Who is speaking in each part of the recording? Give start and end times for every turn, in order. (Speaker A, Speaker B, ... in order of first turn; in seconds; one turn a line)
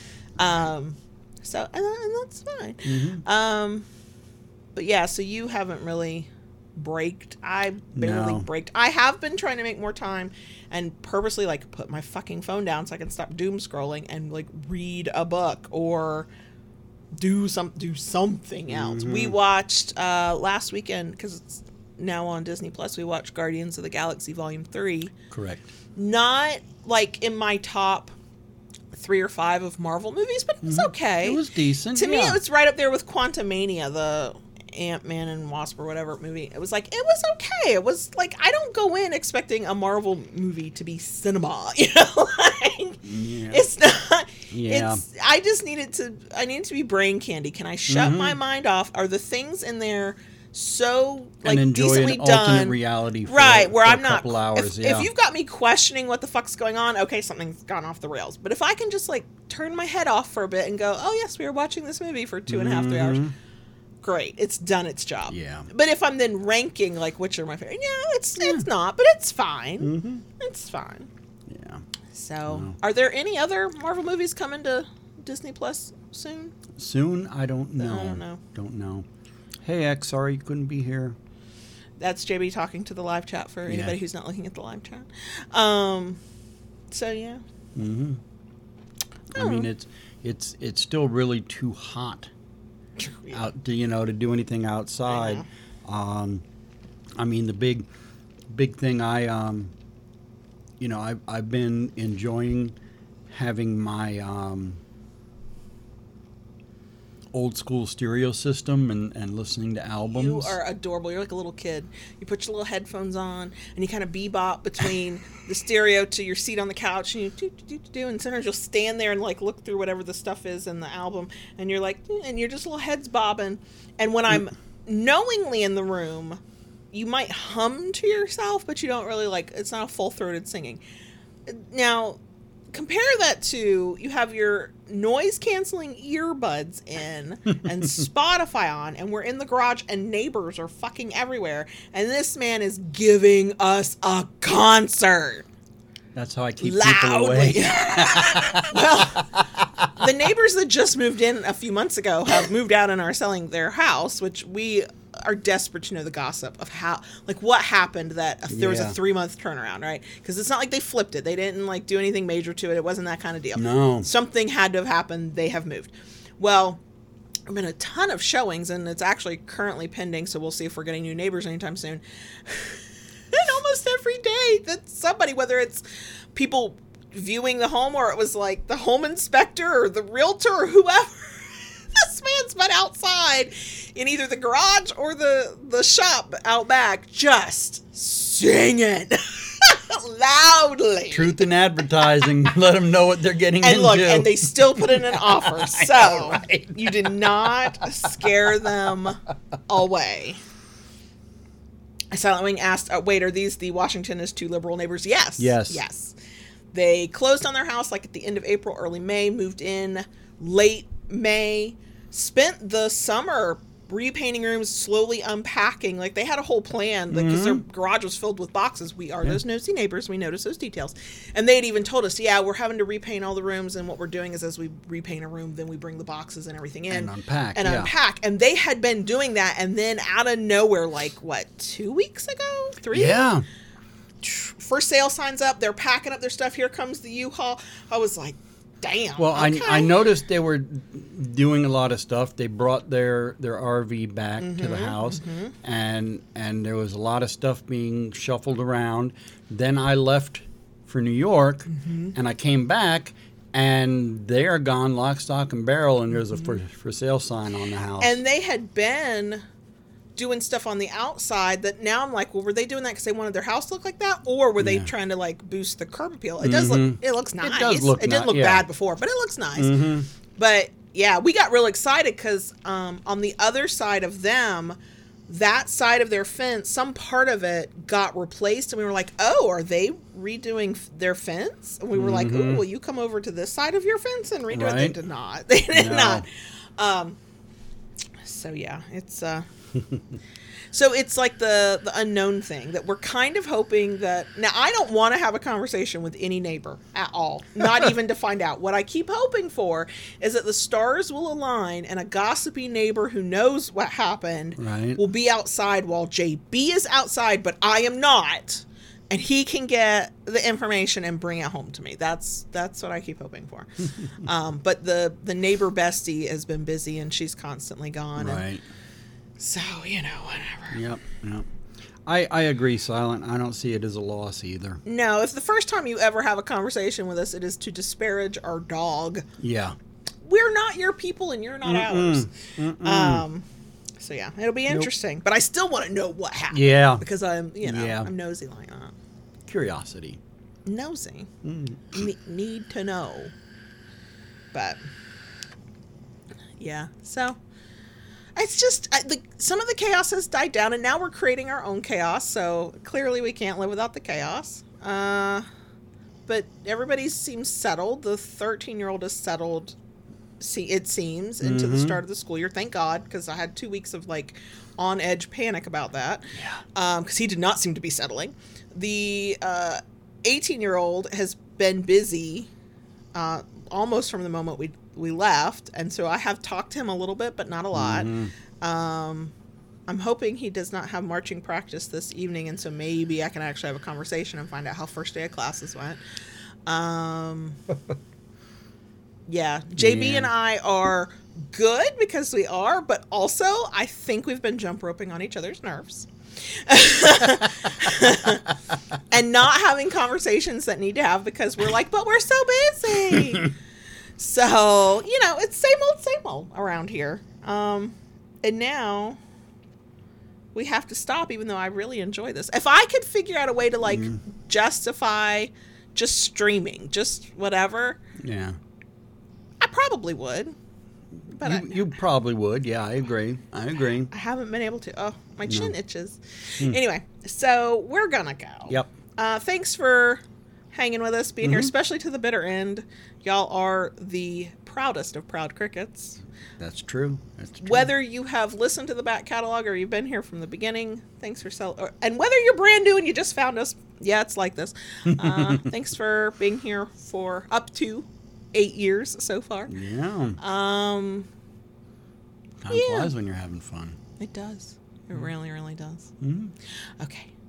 Speaker A: 0.4-3.9
Speaker B: 2.9-3.2
Speaker A: 4.8-16.3
Speaker B: 8.0-8.5
Speaker A: 17.1-25.1
Speaker B: 18.7-19.4
Speaker B: 25.3-25.6
Speaker A: 26.0-28.1
Speaker A: 28.9-31.4
Speaker B: 30.6-32.4
Speaker A: 31.9-63.3
Speaker B: 43.0-43.6
Speaker B: 44.5-45.0
Speaker B: 47.9-48.4
Speaker B: 51.4-55.1
Speaker B: 62.5-63.4
Speaker A: 64.0-71.1
Speaker B: 65.3-65.7
Speaker B: 68.4-68.7
Speaker B: 69.8-70.2
Speaker B: 71.5-71.8
Speaker A: 72.1-76.6
Speaker B: 72.5-72.8
Speaker B: 76.8-79.1
Speaker A: 77.8-78.4
Speaker B: 79.6-81.2
Speaker A: 82.0-86.2
Speaker B: 83.7-84.0
Speaker A: 86.9-87.4
Speaker B: 87.8-88.2
Speaker B: 89.3-92.3
Speaker A: 89.3-89.7
Speaker A: 93.0-93.5
Speaker B: 93.3-96.4
Speaker A: 95.1-95.5
Speaker B: 97.2-97.9
Speaker B: 98.5-99.7
Speaker B: 100.8-102.8
Speaker B: 103.3-104.8
Speaker B: 107.3-110.6
Speaker A: 110.1-126.4
Speaker A: 126.9-130.8
Speaker A: 131.5-132.2
Speaker A: 132.7-145.5
Speaker B: 146.2-149.9
Speaker A: 146.6-149.4
Speaker A: 149.9-166.8
Speaker B: 158.5-159.0
Speaker B: 163.6-164.1
Speaker A: 167.5-175.8
Speaker A: 176.3-191.5
Speaker B: 191.1-197.9
Speaker A: 193.6-200.4
Speaker A: 202.1-206.2
Speaker B: 205.4-205.8
Speaker A: 206.7-233.3
Speaker B: 217.1-217.6
Speaker B: 226.9-227.9
Speaker B: 232.9-233.4
Speaker A: 234.2-240.1
Speaker B: 239.2-258.2
Speaker A: 244.4-245.5
Speaker A: 251.7-252.1
Speaker A: 258.0-259.4
Speaker A: 260.2-287.2
Speaker B: 264.6-264.9
Speaker B: 266.4-268.7
Speaker B: 269.6-270.1
Speaker B: 281.9-282.6
Speaker B: 284.5-285.0
Speaker B: 285.7-286.3
Speaker A: 288.2-289.5
Speaker A: 290.7-318.4
Speaker B: 304.6-305.0
Speaker B: 318.2-318.6
Speaker A: 319.4-320.9
Speaker B: 320.7-321.5
Speaker B: 322.1-324.8
Speaker A: 324.9-329.3
Speaker B: 329.4-329.8
Speaker A: 330.2-333.4
Speaker B: 331.6-333.3
Speaker A: 334.0-338.9
Speaker B: 336.5-337.1
Speaker B: 337.6-338.1
Speaker B: 339.5-340.2
Speaker A: 340.7-341.3
Speaker B: 341.4-342.1
Speaker A: 341.9-343.3
Speaker A: 344.5-344.8
Speaker A: 346.6-347.4
Speaker A: 348.4-355.5
Speaker A: 356.3-359.8
Speaker A: 360.4-372.5
Speaker B: 361.4-362.0
Speaker A: 373.1-379.3
Speaker B: 377.7-378.3
Speaker A: 379.9-386.0
Speaker A: 386.7-387.6
Speaker A: 389.3-398.6
Speaker B: 389.8-390.3
Speaker A: 399.1-403.6
Speaker A: 404.2-409.2
Speaker A: 410.6-418.0
Speaker B: 413.9-414.2
Speaker B: 418.2-418.6
Speaker A: 419.6-420.6
Speaker B: 421.4-424.1
Speaker A: 421.4-421.9
Speaker A: 424.1-436.2
Speaker B: 425.5-425.7
Speaker B: 431.4-431.7
Speaker B: 436.6-437.9
Speaker A: 437.6-449.7
Speaker B: 445.1-445.7
Speaker B: 449.7-450.4
Speaker A: 450.4-451.3
Speaker B: 452.6-454.0
Speaker A: 452.7-453.1
Speaker A: 454.2-456.1
Speaker B: 456.2-456.5
Speaker A: 457.0-457.3